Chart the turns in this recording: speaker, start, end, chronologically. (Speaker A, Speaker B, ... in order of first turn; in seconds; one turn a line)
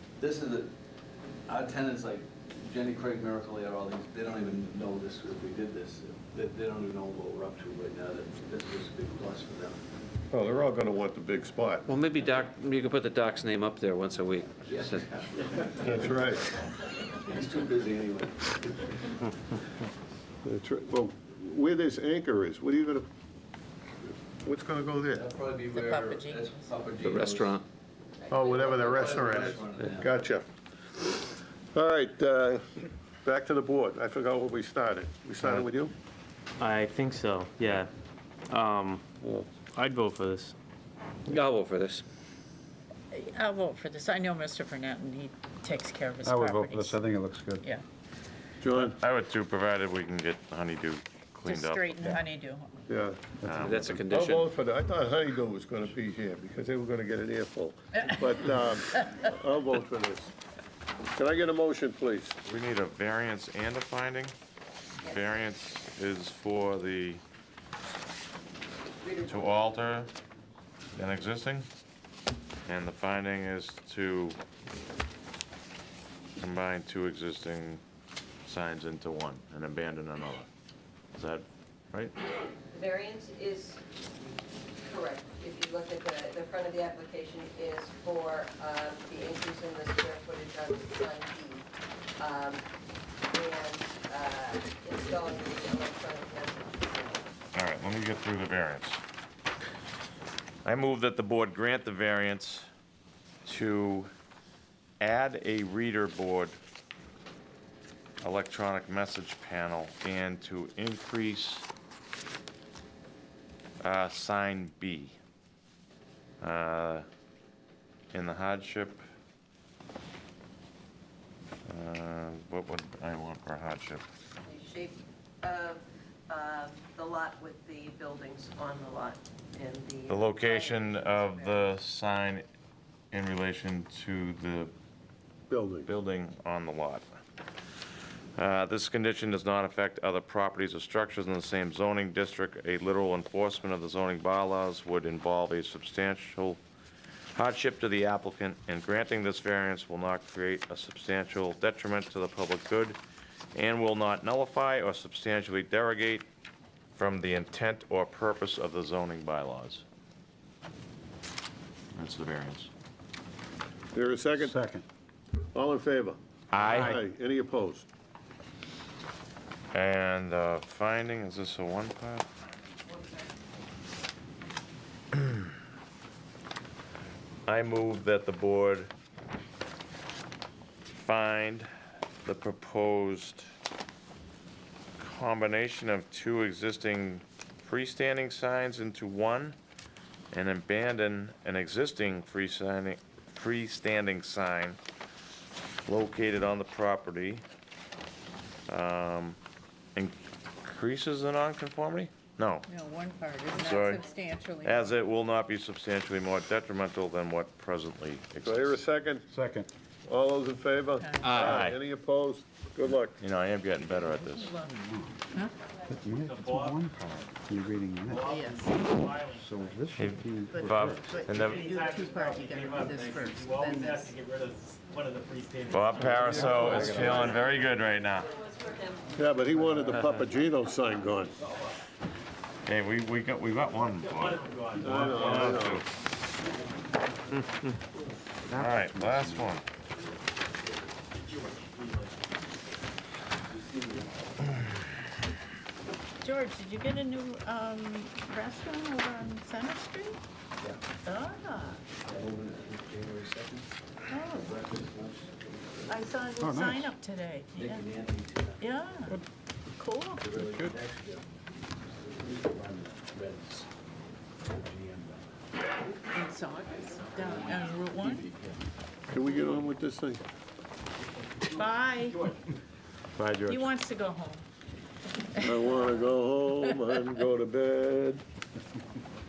Speaker A: 0.2-0.7
Speaker A: 1.5-9.8
Speaker B: 10.3-11.9
Speaker C: 11.9-15.1
Speaker A: 14.7-16.1
Speaker B: 15.8-16.5
Speaker A: 17.2-19.0
Speaker B: 20.4-23.1
Speaker B: 24.4-25.3
Speaker A: 25.1-27.6
Speaker D: 25.7-26.7
Speaker C: 27.0-27.6
Speaker E: 28.2-28.9
Speaker B: 28.3-30.5
Speaker A: 28.5-30.1
Speaker B: 31.7-32.6
Speaker B: 33.2-35.9
Speaker F: 36.6-37.9
Speaker C: 38.5-39.5
Speaker F: 38.7-39.1
Speaker F: 39.6-40.5
Speaker C: 41.3-42.0
Speaker D: 43.1-47.0
Speaker G: 46.3-47.6
Speaker B: 48.6-49.0
Speaker H: 48.8-52.2
Speaker D: 51.5-52.7
Speaker B: 52.9-53.4
Speaker H: 53.4-54.0
Speaker G: 53.5-53.8
Speaker C: 53.6-54.5
Speaker B: 54.0-60.3
Speaker B: 61.1-62.4
Speaker H: 62.4-64.3
Speaker E: 65.0-65.4
Speaker H: 65.0-67.2
Speaker E: 68.9-69.8
Speaker H: 69.2-70.1
Speaker H: 71.0-71.7
Speaker H: 72.7-74.4
Speaker H: 76.4-77.8
Speaker H: 78.5-80.5
Speaker H: 81.2-82.1
Speaker E: 82.7-83.8
Speaker E: 84.8-91.7
Speaker E: 92.2-92.6
Speaker E: 93.3-97.3
Speaker H: 97.5-99.0
Speaker H: 100.7-102.7
Speaker H: 103.5-104.1
Speaker H: 105.0-106.6
Speaker H: 108.2-111.7
Speaker H: 113.8-115.2
Speaker H: 116.4-117.0
Speaker H: 118.1-119.0
Speaker H: 121.7-124.0
Speaker E: 124.4-131.7
Speaker H: 130.1-132.5
Speaker H: 133.1-134.7
Speaker B: 135.5-135.9
Speaker H: 135.9-137.1
Speaker H: 138.4-146.6
Speaker H: 147.3-153.0
Speaker H: 153.6-156.3
Speaker H: 156.9-159.8
Speaker H: 161.9-162.7
Speaker B: 163.9-164.6
Speaker G: 164.4-164.8
Speaker B: 165.5-167.9
Speaker H: 166.5-167.0
Speaker H: 169.7-172.3
Speaker H: 177.5-178.9
Speaker H: 180.9-181.7
Speaker H: 182.2-183.5
Speaker H: 185.0-189.6
Speaker H: 190.3-194.8
Speaker H: 195.9-197.4
Speaker H: 198.7-199.4
Speaker H: 200.0-202.7
Speaker D: 202.7-205.0
Speaker H: 203.6-204.0
Speaker H: 204.6-208.8
Speaker B: 208.4-209.3
Speaker G: 209.3-209.7
Speaker B: 210.1-213.2
Speaker D: 211.0-211.3
Speaker C: 211.2-211.5
Speaker H: 211.3-211.8
Speaker H: 213.2-214.5
Speaker D: 214.2-215.5
Speaker G: 214.7-215.2
Speaker G: 215.9-218.2
Speaker I: 216.0-216.9
Speaker H: 217.0-217.2
Speaker I: 218.1-220.0
Speaker D: 218.2-218.8
Speaker G: 219.3-221.0
Speaker H: 220.0-221.7
Speaker D: 220.5-224.1
Speaker I: 221.3-226.6
Speaker H: 225.7-228.3
Speaker G: 226.1-227.3
Speaker E: 226.5-229.5
Speaker B: 226.6-227.1
Speaker B: 229.2-231.3
Speaker H: 232.7-235.9
Speaker I: 234.0-235.8
Speaker B: 234.8-235.8
Speaker H: 238.5-239.6
Speaker G: 238.6-239.5
Speaker I: 241.3-242.2
Speaker A: 243.5-244.5
Speaker D: 246.2-250.2
Speaker D: 251.0-251.8
Speaker A: 252.0-253.7
Speaker D: 254.1-254.6
Speaker A: 254.4-256.0
Speaker D: 255.9-257.9
Speaker G: 256.4-256.9
Speaker A: 257.6-258.7
Speaker D: 258.6-259.2
Speaker D: 259.8-260.3
Speaker A: 260.2-263.7
Speaker B: 260.4-260.7
Speaker A: 264.5-265.3
Speaker D: 266.1-268.3
Speaker A: 267.2-268.6
Speaker B: 269.1-270.2
Speaker D: 271.5-272.3
Speaker H: 273.2-273.6
Speaker D: 273.4-274.5
Speaker D: 275.3-275.9
Speaker B: 275.4-278.2
Speaker D: 276.7-277.0